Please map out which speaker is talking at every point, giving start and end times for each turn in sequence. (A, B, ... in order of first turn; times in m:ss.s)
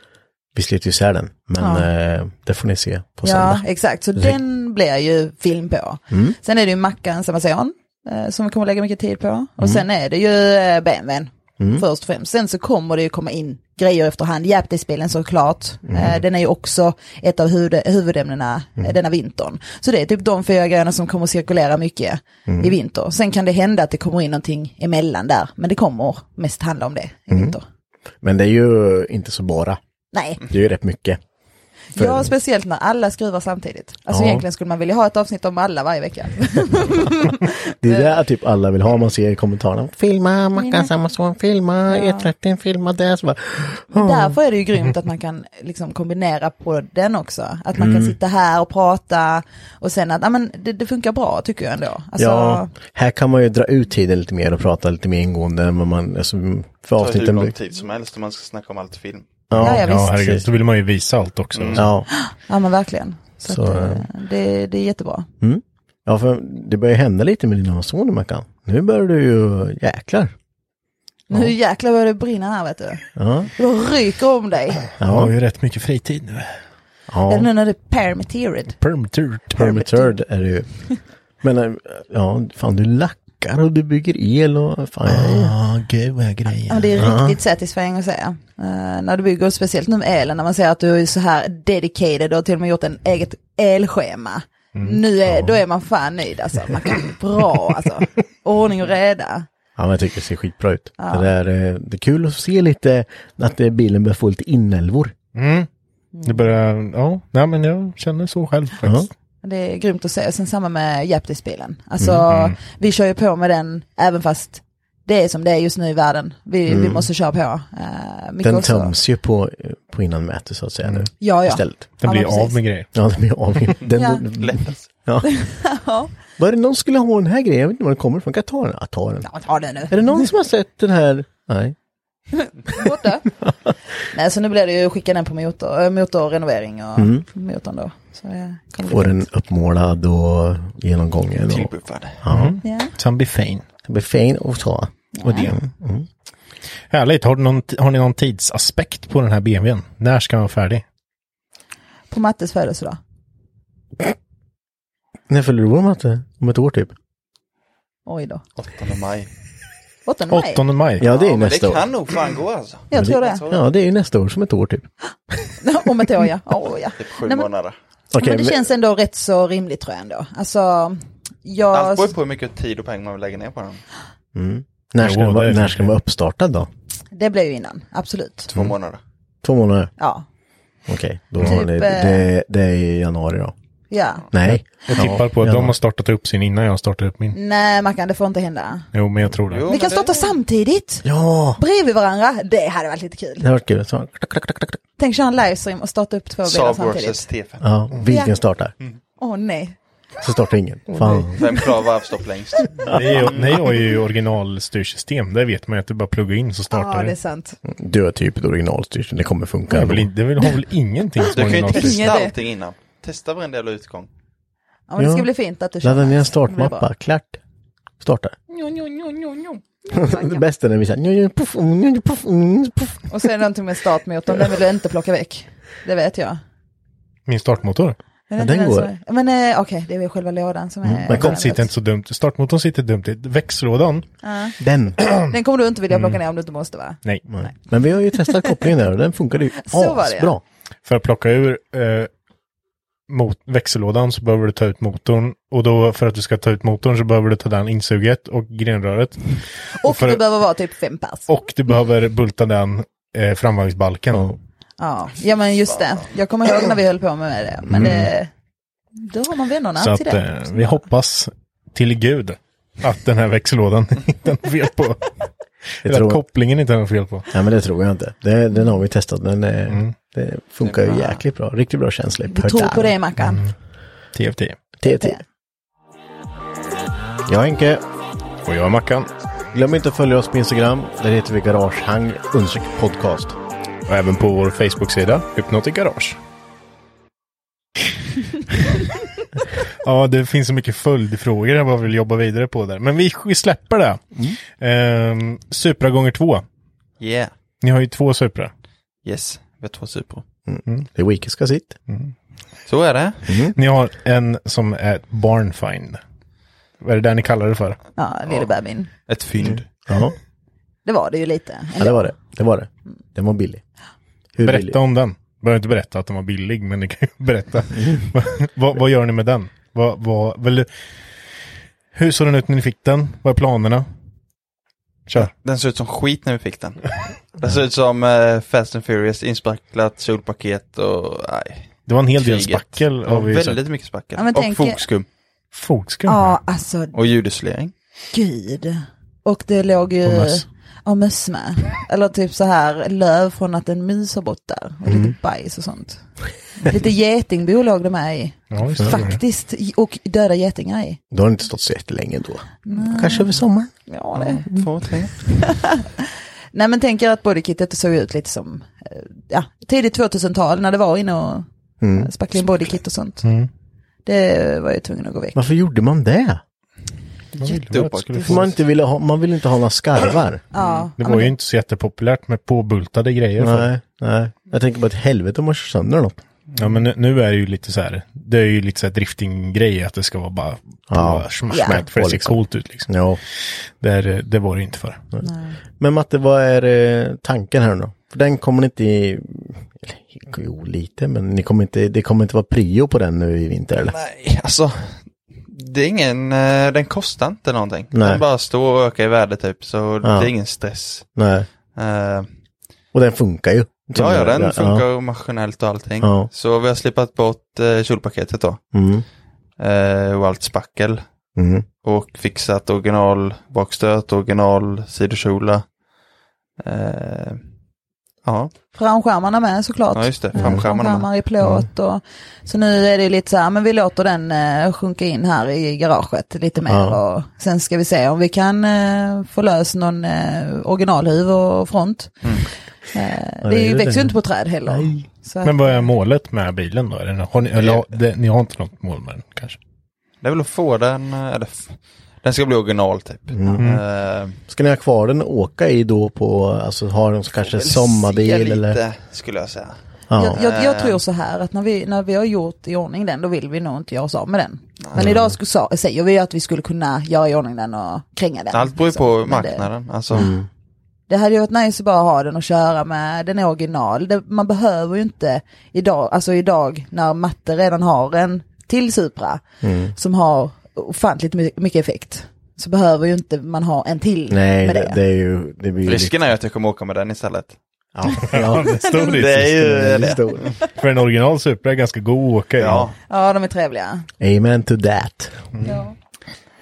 0:00.5-0:03.6 A
0:01.6-0:01.9 B
0:03.2-0:27.6 B
0:06.1-0:06.4 A
0:15.9-0:16.2 A
0:22.5-0:22.8 A
0:27.3-0:27.6 A
0:28.2-0:29.8 A
0:30.1-0:30.4 B
0:30.4-0:31.2 A
0:31.9-0:38.2 B
0:32.0-0:32.3 A
0:34.1-0:34.4 A
0:37.8-0:44.4 A
0:40.6-0:40.9 B
0:41.9-0:42.3 B
0:43.9-0:52.7 B
0:47.8-0:48.2 A
0:52.2-0:57.5 A
0:57.0-0:59.3 C
0:59.5-1:00.5 A
0:59.6-1:01.9 D
0:59.6-1:00.2 B
1:01.5-1:01.8 C
1:01.8-1:02.1 A
1:02.1-1:05.3 B
1:03.5-1:04.1 A
1:05.4-1:10.3 A
1:11.3-1:14.8 B
1:13.2-1:13.5 A
1:15.0-1:15.3 A
1:15.0-1:16.6 D
1:17.1-1:17.5 A
1:17.3-1:18.7 B
1:18.8-1:19.7 D
1:19.6-1:20.7 A
1:19.6-1:20.1 B
1:21.4-1:25.6 A
1:25.1-1:27.1 D
1:26.7-1:39.5 B
1:27.0-1:27.4 A
1:34.8-1:35.6 D
1:39.8-1:45.1 A
1:41.0-1:41.3 B
1:45.4-1:45.7 D
1:46.2-1:46.5 B
1:46.2-1:49.1 D
1:48.8-1:49.1 A
1:49.4-1:58.9 B
1:52.3-1:52.6 D
1:56.7-1:57.1 A
1:58.4-2:01.9 A
2:01.2-2:02.6 B
2:02.0-2:02.9 D
2:02.9-2:05.3 A
2:04.0-2:04.2 B
2:04.4-2:04.8 C
2:05.2-2:06.1 B
2:06.4-2:09.3 A
2:09.2-2:10.3 B
2:09.9-2:11.8 A
2:12.4-2:13.3 B
2:14.1-2:19.2 B
2:17.0-2:17.2 A
2:18.9-2:22.6 A
2:21.5-2:22.2 C
2:22.3-2:23.6 D
2:22.6-2:22.9 B
2:23.8-2:26.1 A
2:25.2-2:25.5 B
2:26.9-2:30.8 D
2:32.1-2:33.0 B
2:35.3-2:36.9 A
2:38.1-2:38.4 B
2:38.6-2:39.3 C
2:40.1-2:40.6 B
2:40.3-2:41.1 D
2:41.0-2:41.9 A
2:41.0-2:43.6 C
2:42.9-2:43.4 B
2:42.9-2:44.9 A
2:45.6-2:47.5 B
2:47.0-2:47.8 C
2:48.1-2:48.7 A
2:48.2-2:52.1 B
2:51.7-2:53.8 C
2:54.4-2:56.7 A
2:55.0-2:55.9 D
2:57.1-2:58.5 B
2:58.5-2:59.0 C
2:59.4-2:59.9 A
3:00.0-3:00.2 B
3:00.9-3:03.5 A
3:01.4-3:02.2 B
3:03.9-3:04.2 B
3:04.3-3:05.8 A
3:04.5-3:07.4 D
3:07.3-3:08.9 B
3:08.9-3:09.7 D
3:09.5-3:10.3 C
3:09.7-3:11.1 B
3:11.0-3:11.6 A
3:11.6-3:13.5 B
3:13.4-3:14.8 A
3:15.0-3:17.2 B
3:16.4-3:17.6 C
3:17.6-3:18.7 A
3:18.0-3:18.4 B
3:19.2-3:19.8 B
3:20.2-3:21.5 A
3:20.9-3:21.3 D
3:21.3-3:23.7 C
3:22.9-3:27.2 D
3:26.7-3:27.6 B
3:27.6-3:30.1 A
3:29.7-3:32.2 D
3:31.3-3:34.1 C
3:31.5-3:32.3 B
3:34.9-3:36.9 B
3:35.0-3:35.3 A
3:35.8-3:37.4 A
3:38.0-3:38.4 A
3:38.5-3:39.6 D
3:39.9-3:40.4 B
3:39.9-3:43.1 A
3:43.1-3:46.4 B
3:47.3-3:48.0 D
3:48.3-3:51.7 B
3:48.4-3:48.9 A
3:50.8-3:51.6 A
3:51.1-3:54.1 D
3:54.2-3:54.6 B
3:54.6-3:55.0 A
3:55.2-3:57.0 B
3:55.9-3:56.2 D
3:57.3-4:00.4 A
3:59.6-4:00.3 B
4:00.9-4:02.1 D
4:03.1-4:10.2 D
4:09.8-4:11.3 B
4:11.3-4:14.3 D
4:14.8-4:18.3 B
4:17.7-4:18.1 A
4:17.8-4:18.1 D
4:19.0-4:20.8 B
4:19.8-4:25.2 D
4:25.8-4:27.3 D
4:25.8-4:26.2 A
4:27.3-4:33.0 A
4:29.7-4:29.9 D
4:30.6-4:31.2 C
4:32.3-4:33.4 B
4:33.2-4:33.5 D
4:34.2-4:34.6 D
4:34.8-4:35.2 A
4:34.8-4:35.2 B
4:37.3-4:37.8 A
4:38.5-4:39.1 D
4:39.5-4:43.4 A
4:43.9-4:46.2 D
4:49.8-4:54.0 D
4:54.6-4:56.4 D
4:57.0-4:57.3 C
4:57.6-4:58.5 D
4:59.0-5:00.2 C
5:00.5-5:01.8 A
5:01.9-5:02.1 D
5:02.7-5:03.4 C
5:03.3-5:03.6 A
5:03.6-5:06.0 D
5:06.8-5:07.8 D
5:08.0-5:08.9 B
5:09.1-5:09.7 C
5:09.4-5:10.2 A
5:10.9-5:12.1 B
5:11.8-5:13.6 A
5:14.4-5:14.8 A
5:14.4-5:20.7 D
5:17.7-5:18.1 A
5:22.0-5:23.9 D
5:25.2-5:35.1 C
5:31.9-5:33.6 D
5:34.2-5:34.8 B
5:35.5-5:36.4 D
5:36.1-5:37.0 B
5:36.9-5:37.7 C
5:38.1-5:46.0 B
5:40.0-5:40.4 D
5:44.9-5:45.1 A
5:46.6-5:51.0 B
5:48.5-5:49.2 D
5:48.8-5:49.0 A
5:51.1-5:53.7 A
5:52.7-5:53.4 B
5:53.9-5:54.4 B
5:54.2-5:55.2 C
5:55.3-6:03.2 B
6:01.8-6:02.1 A
6:03.2-6:03.5 D
6:04.1-6:05.4 B
6:05.4-6:06.4 A
6:07.4-6:08.4 D
6:07.4-6:08.5 C
6:08.2-6:10.4 A
6:10.5-6:11.3 B
6:10.6-6:10.9 C
6:11.0-6:13.7 D
6:13.4-6:16.2 A
6:16.6-6:25.0 D
6:20.9-6:23.2 A
6:21.5-6:21.8 B
6:25.2-6:25.6 B
6:25.8-6:34.0 A
6:33.8-6:41.1 C
6:37.9-6:38.2 A
6:40.0-6:40.3 A
6:41.2-6:41.5 A
6:41.8-6:42.3 C
6:42.9-6:44.9 A
6:43.9-6:48.6 C
6:46.0-6:46.3 A
6:48.7-6:49.0 A
6:49.6-6:51.0 C
6:51.4-6:51.7 A
6:51.8-6:55.7 C
6:56.6-6:57.4 C
6:58.2-6:58.5 C
6:58.7-7:12.2 B
6:59.9-7:01.1 C
7:00.4-7:00.6 A
7:06.7-7:07.0 A
7:12.9-7:15.8 B
7:13.4-7:15.0 A
7:15.4-7:19.6 D
7:17.5-7:17.9 C
7:20.2-7:24.4 C
7:23.3-7:23.7 A
7:24.5-7:28.8 A
7:27.5-7:29.8 C
7:30.1-7:30.4 A
7:30.2-7:39.7 B
7:30.3-7:31.0 C
7:35.0-7:35.4 A
7:38.5-7:40.3 C
7:40.1-7:40.5 A
7:41.1-7:49.4 B
7:49.6-7:49.9 A
7:50.0-7:55.0 B
7:54.3-7:56.1 A
7:55.9-7:57.6 C
7:58.0-8:00.5 A
7:58.3-7:59.6 D
7:59.1-8:00.5 C
8:00.7-8:02.9 D
8:02.6-8:02.9 C
8:03.1-8:04.1 B
8:04.2-8:05.5 A
8:05.6-8:06.0 B